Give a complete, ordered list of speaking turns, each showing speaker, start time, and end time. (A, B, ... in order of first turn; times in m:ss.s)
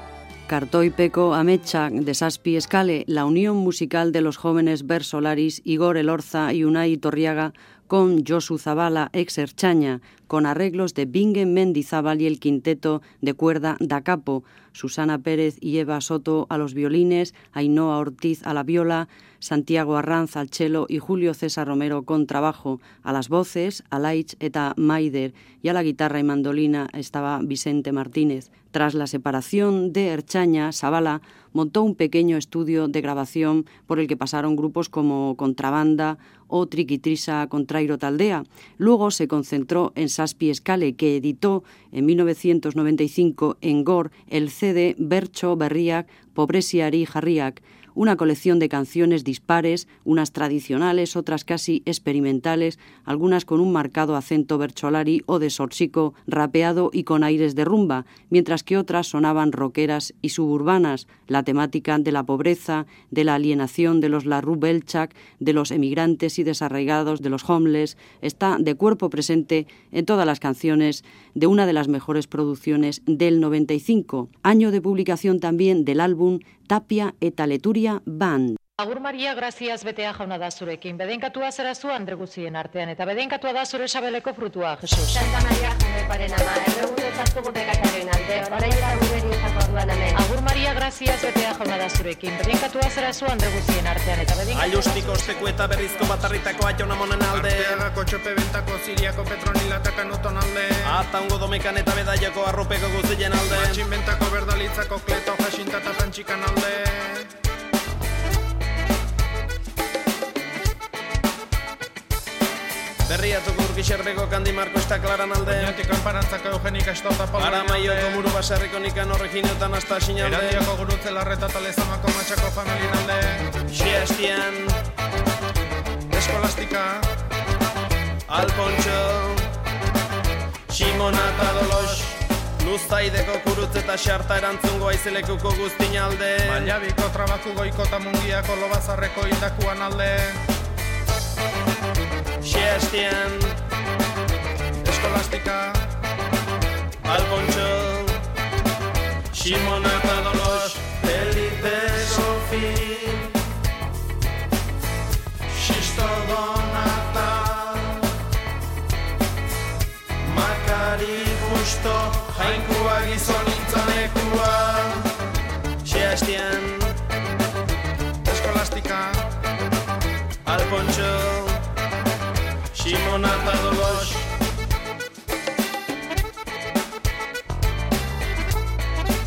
0:00.5-1:18.6 A
1:18.8-1:25.3 B
1:25.1-1:30.2 C
1:30.1-1:34.9 B
1:34.5-1:37.8 D
1:37.3-1:41.0 E
1:40.8-1:43.9 D
1:43.5-1:47.2 E
1:53.1-1:55.8 D
1:55.4-1:58.3 E
1:57.4-2:00.7 D
2:00.2-2:03.4 E
2:03.7-2:04.8 D
2:06.1-2:07.1 E
2:08.3-2:09.4 D
2:10.7-2:16.7 D
2:16.4-2:20.4 E
2:22.4-2:23.6 D
2:24.8-2:25.8 E
2:27.0-2:28.2 D
2:29.3-2:33.3 D
2:35.6-2:37.7 E
2:40.3-2:44.9 D
2:43.0-2:43.7 E
2:45.8-2:47.0 D
2:48.2-2:49.2 E
2:50.4-2:51.6 D
2:52.7-2:54.3 D